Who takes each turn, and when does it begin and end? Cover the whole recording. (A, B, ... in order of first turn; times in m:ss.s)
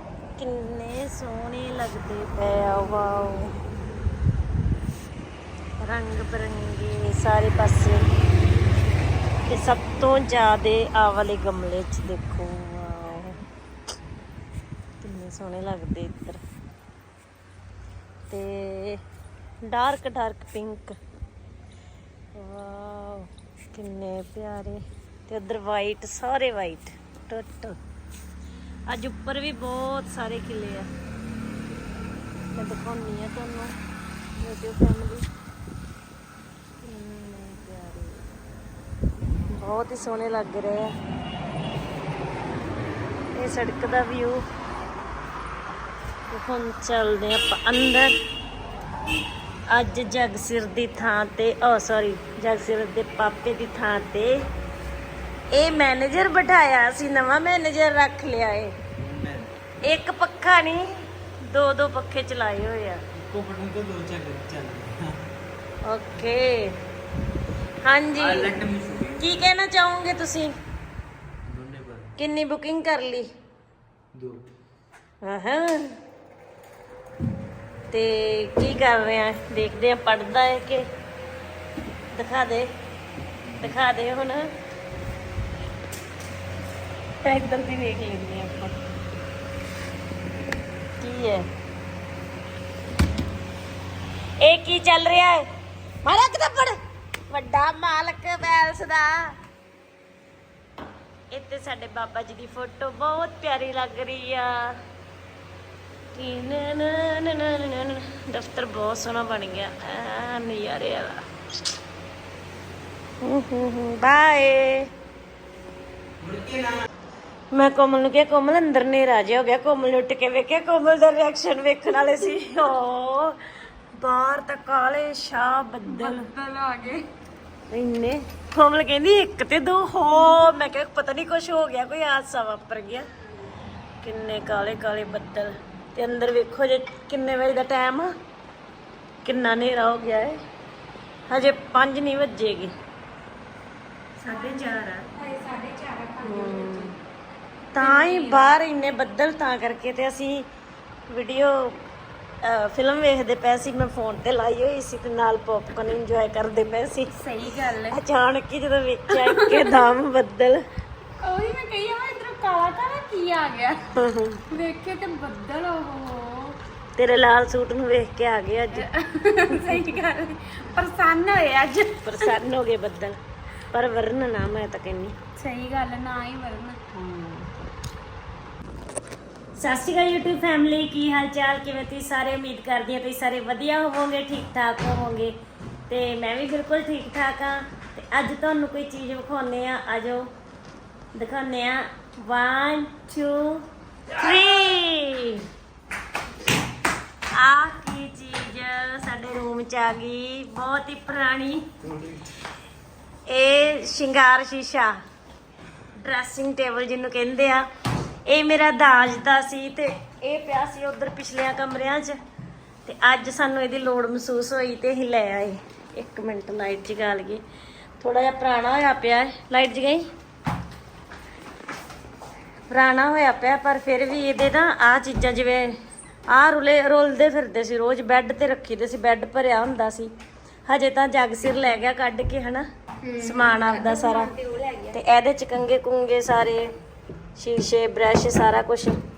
0:00.4-0:03.5 A
0:05.8-0:08.1 A
0:09.5-0:13.4 A
0:15.0-0:16.4 A
0:18.3-0:19.0 A
0:19.6-0:21.0 A
0:22.3-0:27.8 A
0:28.9-0:30.9 A
0:32.5-0:33.8 A
0:34.4-0:35.3 A
0:36.8-0:38.2 A
0:39.5-0:40.9 A
0:43.3-0:44.4 A
0:46.3-0:48.1 A
0:49.7-0:54.4 A
0:55.5-0:58.7 A
0:59.0-0:59.5 B
0:59.8-1:00.9 A
1:01.4-1:03.0 A
1:03.1-1:05.2 B
1:05.8-1:06.8 A
1:07.8-1:08.5 A
1:08.2-1:09.2 B
1:09.2-1:10.5 A
1:11.4-1:12.1 B
1:12.2-1:13.3 A
1:14.1-1:14.4 B
1:15.2-1:16.0 A
1:17.9-1:20.9 A
1:22.1-1:22.7 A
1:23.4-1:23.7 B
1:23.6-1:24.5 A
1:27.2-1:28.8 A
1:31.0-1:31.5 A
1:34.4-1:35.4 A
1:36.0-1:36.8 A
1:37.3-1:39.3 A
1:41.3-1:44.8 A
1:46.1-1:51.2 A
1:53.2-1:54.9 A
1:56.2-1:56.8 B
1:57.5-2:03.4 A
2:03.9-2:06.3 A
2:05.8-2:07.1 C
2:07.7-2:13.0 A
2:14.0-2:18.1 A
2:19.2-2:20.4 A
2:21.3-2:22.7 A
2:24.2-2:25.1 A
2:24.3-2:27.0 C
2:26.2-2:26.9 A
2:27.7-2:30.5 A
2:27.8-2:28.5 C
2:31.1-2:31.8 A
2:32.4-2:37.1 A
2:37.1-2:38.0 C
2:37.9-2:40.6 A
2:39.1-2:39.8 C
2:41.2-2:43.8 C
2:43.9-2:44.4 A
2:44.5-2:46.6 C
2:47.0-2:48.9 A
2:48.7-2:52.3 C
2:49.5-2:49.8 A
2:52.0-2:53.2 A
2:53.7-2:55.2 A
2:55.4-2:57.5 C
2:59.6-3:05.3 A
3:05.9-3:10.3 A
3:11.1-3:15.4 A
3:17.3-3:21.7 A
3:21.8-3:22.3 B
3:23.3-3:25.0 A
3:26.0-3:27.6 A
3:28.2-3:32.2 A
3:32.8-3:37.4 A
3:38.0-3:40.1 A
3:42.7-3:45.8 A
3:46.3-3:50.1 A
3:50.7-3:52.7 A
3:53.0-3:55.0 C
3:53.2-3:54.3 A
3:54.9-3:56.7 A
3:57.4-3:59.0 A